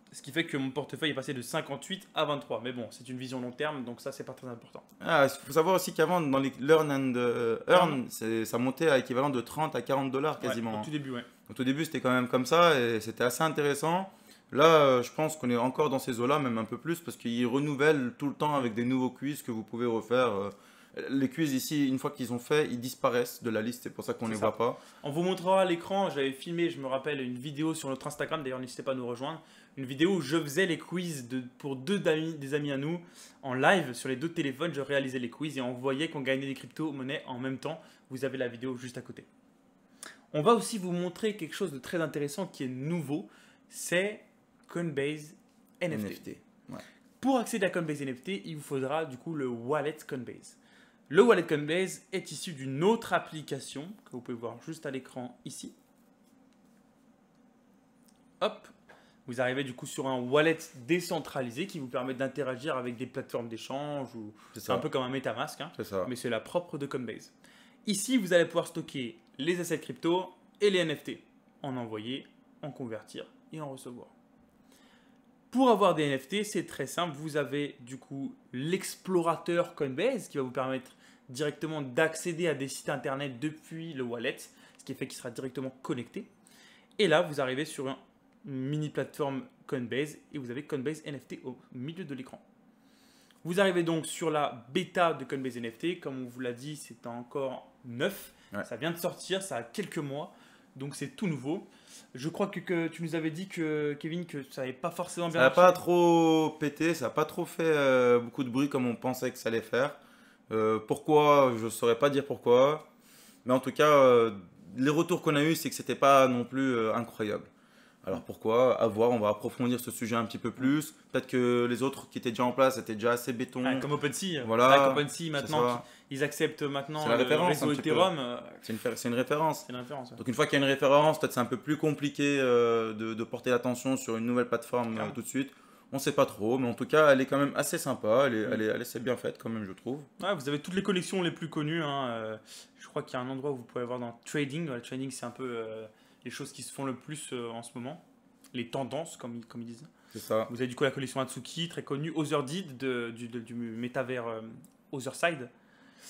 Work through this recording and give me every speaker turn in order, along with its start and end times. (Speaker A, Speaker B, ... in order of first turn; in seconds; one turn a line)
Speaker A: 0.1-4.8
Speaker B: 5.0-10.9
Speaker A: 7.7-8.0
Speaker A: 10.4-11.3
Speaker B: 11.5-24.8
Speaker A: 24.3-39.3
Speaker A: 40.3-46.2
Speaker B: 45.9-46.8
Speaker A: 47.2-50.6
Speaker A: 51.1-55.8
Speaker A: 58.4-58.7
Speaker A: 59.3-67.3
Speaker B: 64.5-64.8
Speaker B: 65.8-66.1
Speaker A: 67.8-74.1
Speaker A: 75.5-86.3
Speaker A: 87.0-92.4
Speaker A: 93.4-105.8
Speaker B: 105.3-110.0
Speaker B: 110.5-112.9
Speaker B: 113.5-117.5
Speaker B: 118.0-123.9
Speaker A: 123.6-128.6
Speaker B: 124.4-125.8
Speaker B: 127.0-128.1
Speaker B: 128.6-129.7
Speaker A: 129.7-130.2
Speaker B: 130.2-140.1
Speaker A: 140.2-148.0
Speaker A: 148.5-149.9
Speaker B: 150.1-150.5
Speaker A: 150.5-155.5